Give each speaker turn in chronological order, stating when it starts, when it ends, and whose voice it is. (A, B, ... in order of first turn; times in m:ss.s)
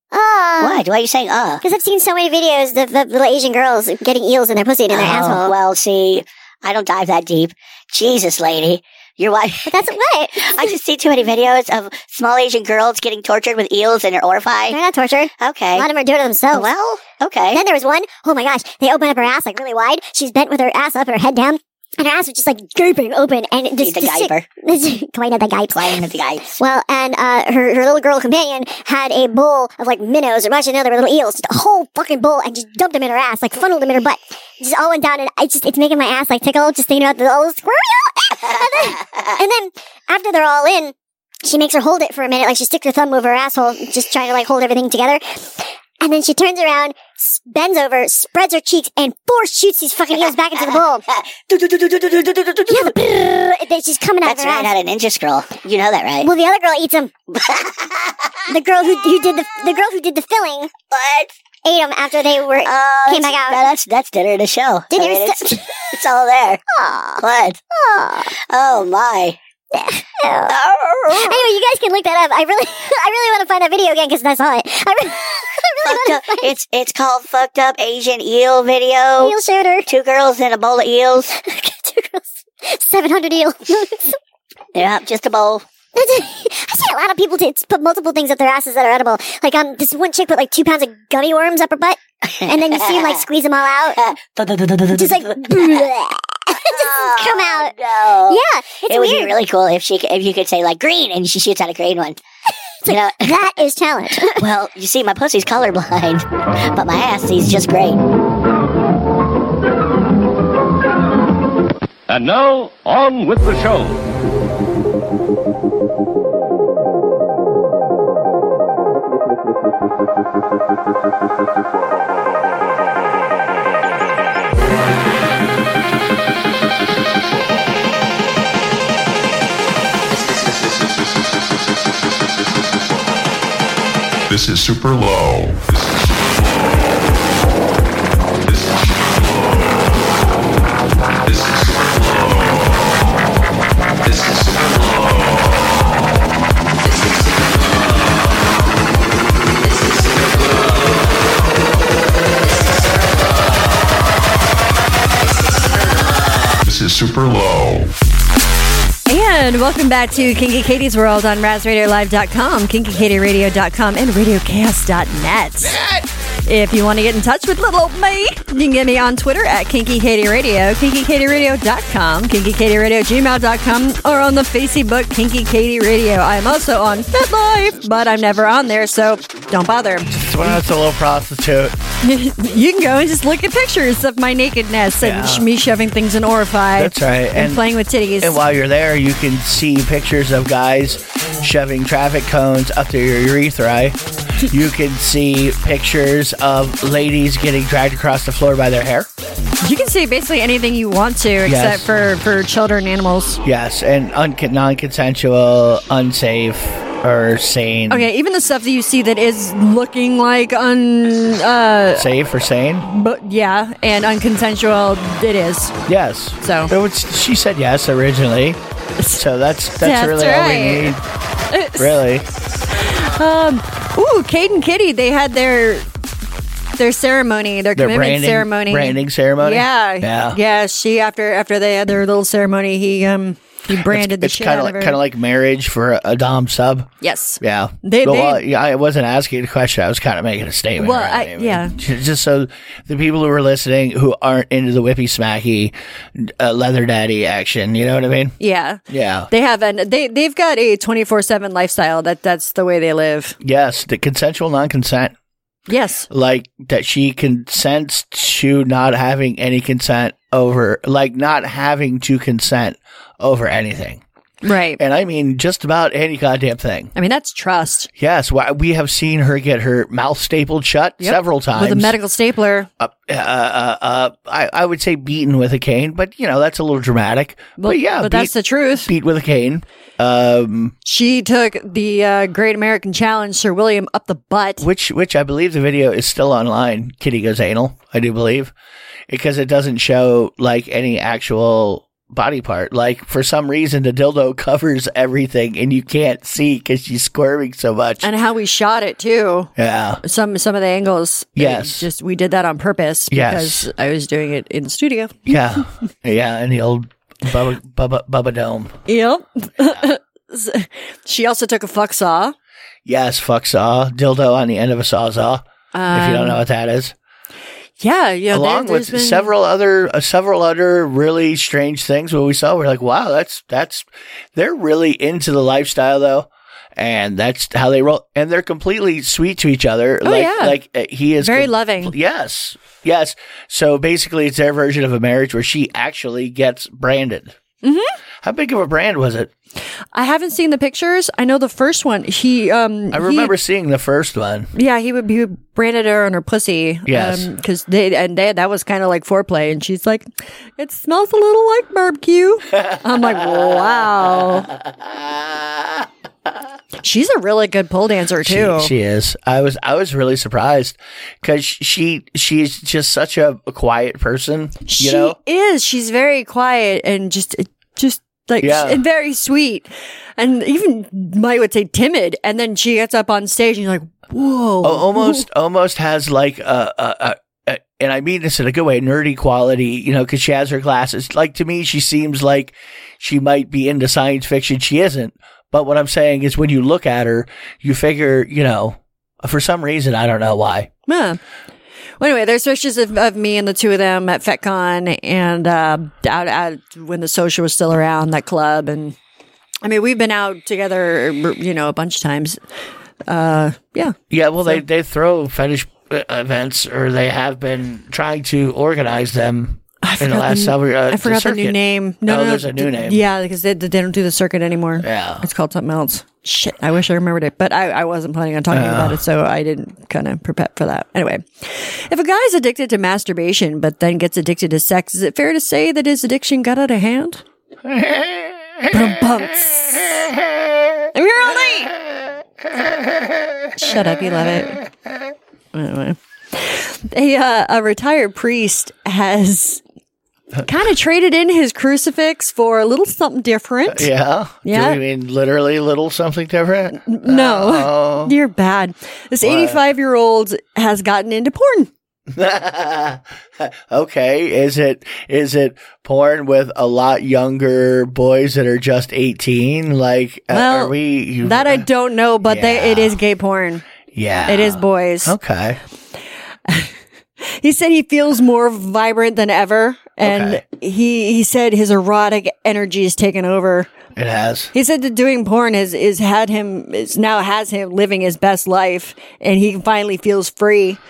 0:00.1-0:00.8 A
0:00.6-0:01.6 B
0:01.6-0:05.5 A
0:04.9-0:14.8 B
0:09.6-0:10.8 A
0:14.7-0:16.7 A
0:15.4-0:15.9 B
0:16.5-0:17.6 B
0:17.5-0:40.9 A
0:23.8-0:24.5 B
0:25.7-0:26.5 B
0:41.4-0:51.0 A
0:51.5-0:53.2 B
0:52.7-0:54.7 A
0:54.2-0:56.3 B
0:56.2-0:57.1 A
0:57.4-0:58.0 B
0:58.5-1:00.8 A
1:00.9-1:01.3 B
1:01.6-1:03.6 A
1:02.6-1:06.6 B
1:04.9-1:06.0 A
1:06.7-1:08.3 A
1:07.2-1:07.6 B
1:08.5-1:09.4 B
1:09.7-1:10.6 A
1:10.5-1:11.4 B
1:11.1-1:16.5 A
1:15.8-1:19.4 B
1:19.2-1:19.9 A
1:19.9-1:21.3 B
1:21.3-1:24.2 A
1:24.7-1:25.6 B
1:25.9-1:34.0 A
1:32.5-1:33.2 B
1:34.0-1:35.8 B
1:34.9-1:39.4 A
1:36.6-1:42.2 B
1:42.8-1:44.5 A
1:42.9-1:43.4 B
1:44.4-1:48.0 B
1:52.1-1:54.0 C
2:14.3-2:15.9 D
2:21.3-2:22.7 D
2:24.1-2:25.2 D
2:36.6-2:37.9 D
2:39.1-2:45.8 E
2:46.4-3:00.6 E
3:00.1-3:01.8 F
3:02.0-3:08.4 E
3:05.0-3:05.5 F
3:06.7-3:07.7 F
3:08.2-3:19.1 F
3:19.6-3:23.4 E
3:21.4-3:21.9 F
3:23.4-3:28.1 F
3:27.9-3:32.1 E
3:31.9-3:32.9 F
3:32.8-3:35.8 E
3:35.9-3:38.6 F
3:36.4-3:36.7 E
3:39.1-3:41.0 F
3:39.8-3:41.0 E
3:41.5-3:42.0 E
3:41.8-3:42.2 F
3:42.8-3:45.9 E
3:46.8-3:55.0 E
3:47.7-3:50.4 F
3:53.7-4:08.4 F
3:57.0-3:58.4 E
4:00.8-4:01.8 E
4:08.4-4:13.4 E
4:08.9-4:09.3 F
4:13.4-4:15.1 F
4:15.7-4:16.1 E
4:16.1-4:24.0 F
4:24.4-4:24.8 E
4:24.8-4:26.9 F
4:26.9-4:27.9 E
4:28.0-4:32.0 F
4:31.0-4:32.7 E
4:32.8-4:40.7 F
4:37.6-4:38.9 E
4:40.8-4:44.6 E
4:44.6-4:48.5 F
4:49.1-4:58.1 F
4:58.0-4:59.5 E
4:59.6-5:00.0 F
5:00.0-5:05.3 E
5:01.4-5:01.9 F
5:03.1-5:03.7 F
5:05.3-5:08.8 F
5:08.9-5:12.3 E
5:12.8-5:16.9 F
5:15.7-5:16.4 E
5:17.8-5:19.3 E
5:18.3-5:37.4 F
5:30.0-5:30.6 E
5:31.2-5:31.9 E
5:37.6-5:37.9 E
5:38.2-5:39.3 F
5:39.9-5:43.3 E
5:42.9-5:44.5 F
5:44.5-5:50.1 E
5:46.8-5:47.3 F
5:50.6-5:54.5 E
5:52.5-5:55.8 F
5:56.8-5:58.7 E
5:58.2-6:05.2 F
6:04.6-6:15.2 E
6:08.4-6:08.8 F
6:14.6-6:30.7 F
6:30.9-6:31.2 E
6:32.0-6:38.9 E
6:39.6-6:42.4 E
6:43.1-6:44.6 E
6:44.1-6:53.0 F
6:49.8-7:07.2 E
6:54.8-6:55.3 F
6:58.5-6:59.0 F
7:07.6-7:10.8 F
7:08.7-7:10.1 E
7:10.9-7:11.7 E
7:12.5-7:14.7 F
7:13.6-7:14.6 E
7:15.5-7:19.6 E
7:20.4-7:23.9 E
7:23.7-7:28.1 F
7:24.4-7:24.8 E
7:26.8-7:31.7 E
7:29.2-7:29.6 F
7:32.1-7:41.6 F
7:40.3-7:43.6 E
7:42.2-7:43.0 F
7:43.9-7:45.6 F
7:44.3-7:45.1 E
7:46.5-7:53.7 E
7:50.0-7:50.4 F
7:53.9-7:54.5 F
7:54.5-8:00.8 E